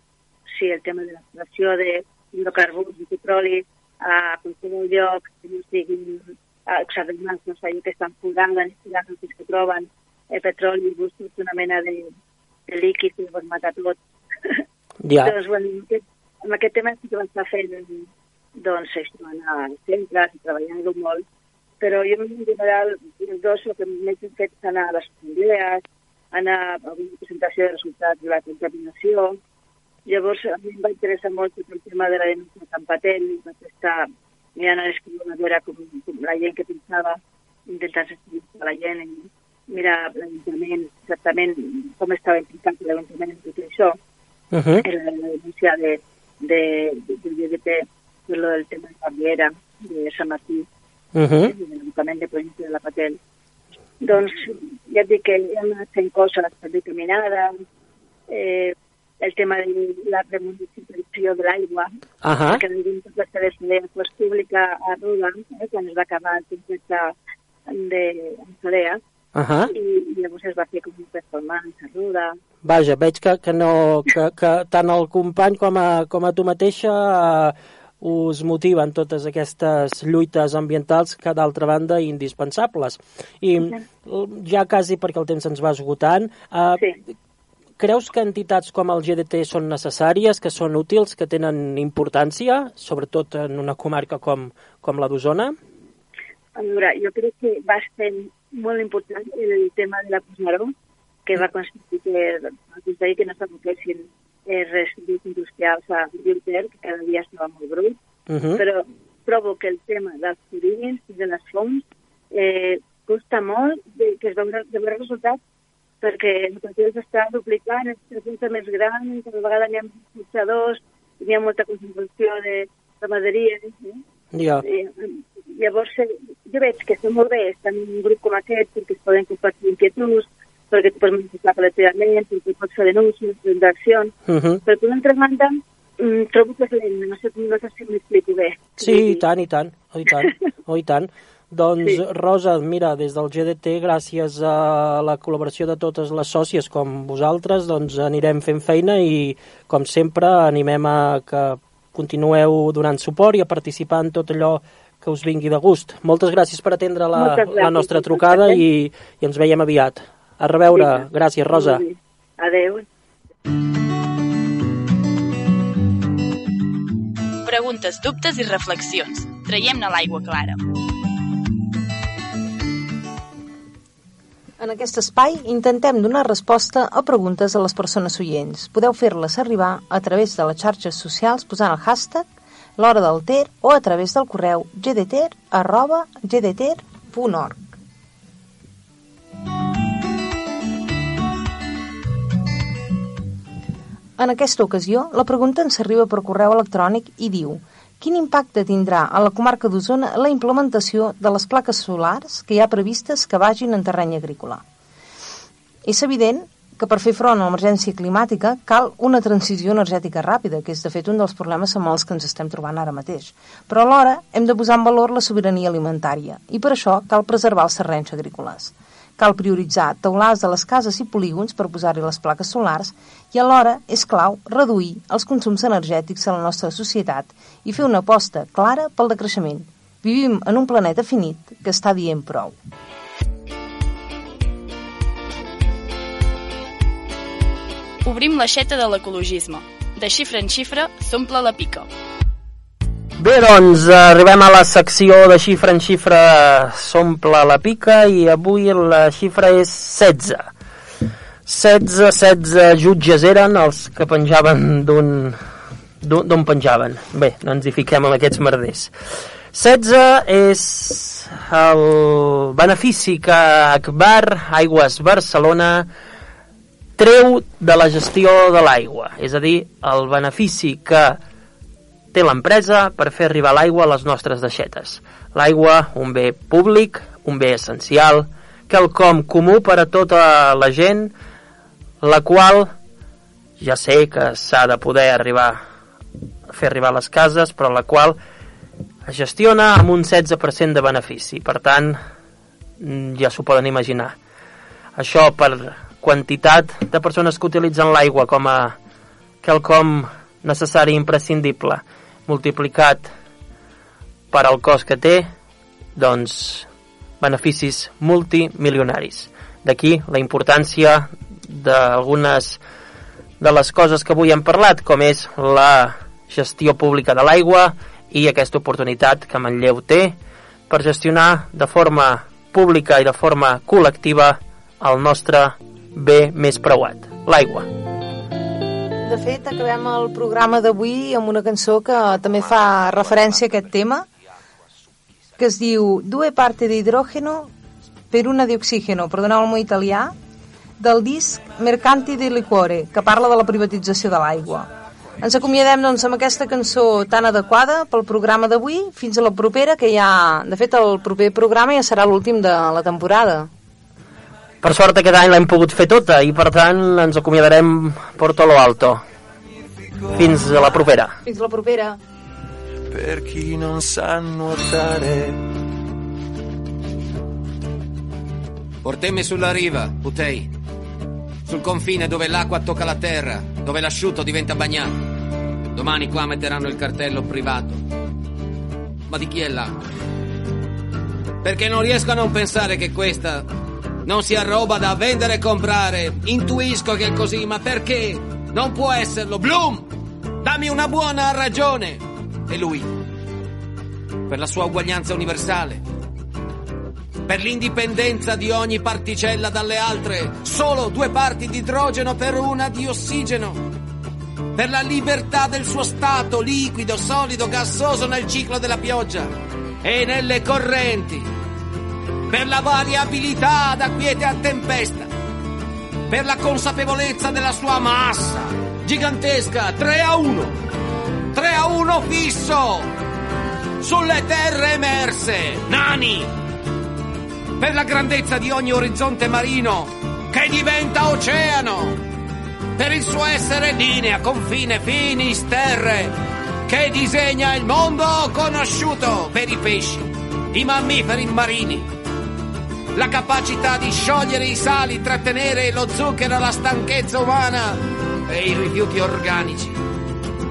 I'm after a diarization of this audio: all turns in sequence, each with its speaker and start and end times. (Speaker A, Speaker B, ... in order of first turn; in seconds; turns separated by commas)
Speaker A: 0.5-12.1, Speaker A: 12.7-14.6, Speaker B: 15.0-15.3, Speaker A: 15.2-21.2, Speaker A: 21.8-25.8, Speaker A: 26.3-29.4, Speaker A: 30.1-34.0, Speaker A: 34.6-44.0, Speaker B: 44.5-44.8, Speaker A: 44.8-50.6, Speaker B: 51.1-51.5, Speaker A: 51.4-53.2, Speaker A: 54.0-57.5, Speaker A: 58.3-61.9, Speaker B: 62.2-62.6, Speaker A: 62.5-67.1, Speaker A: 67.7-69.0, Speaker B: 69.3-69.7, Speaker A: 69.7-72.3, Speaker B: 72.6-86.8, Speaker B: 87.8-95.5, Speaker A: 96.5-100.7, Speaker A: 101.2-108.0, Speaker B: 108.3-108.6, Speaker A: 108.5-115.4, Speaker A: 116.0-124.0, Speaker B: 124.3-124.6, Speaker A: 124.6-134.1, Speaker B: 134.3-134.6, Speaker A: 134.6-139.2, Speaker B: 138.8-161.8, Speaker A: 157.2-158.6, Speaker A: 160.7-162.8, Speaker C: 167.4-170.7, Speaker D: 174.6-187.8, Speaker D: 194.2-204.6, Speaker D: 205.8-232.6, Speaker C: 238.0-241.9, Speaker B: 243.2-250.5, Speaker B: 251.5-255.4, Speaker B: 256.0-258.9, Speaker B: 259.5-265.9, Speaker B: 267.0-271.2, Speaker B: 272.1-281.1, Speaker B: 282.0-282.7, Speaker B: 283.6-285.6, Speaker B: 286.5-288.2, Speaker B: 289.0-292.0, Speaker B: 292.8-294.1, Speaker B: 294.9-298.7, Speaker B: 299.4-303.1, Speaker B: 304.3-305.3, Speaker B: 305.9-306.7, Speaker B: 307.2-312.6, Speaker B: 313.4-320.1, Speaker B: 320.7-327.7, Speaker D: 329.0-334.1, Speaker D: 335.4-337.5, Speaker D: 338.1-340.1, Speaker D: 340.8-353.5, Speaker B: 354.6-359.0, Speaker E: 359.7-360.4, Speaker B: 360.1-361.1, Speaker D: 361.2-362.0, Speaker E: 362.9-365.4, Speaker F: 368.8-370.5, Speaker F: 371.4-375.1, Speaker F: 375.7-377.8, Speaker F: 379.1-379.8, Speaker F: 381.4-383.5, Speaker F: 384.0-392.9, Speaker F: 394.3-395.8, Speaker F: 397.2-403.6, Speaker F: 404.5-411.3, Speaker F: 412.3-415.1, Speaker F: 416.1-420.6, Speaker F: 421.3-422.9, Speaker F: 423.8-426.3, Speaker F: 427.6-432.0, Speaker F: 432.8-441.9, Speaker F: 442.9-449.8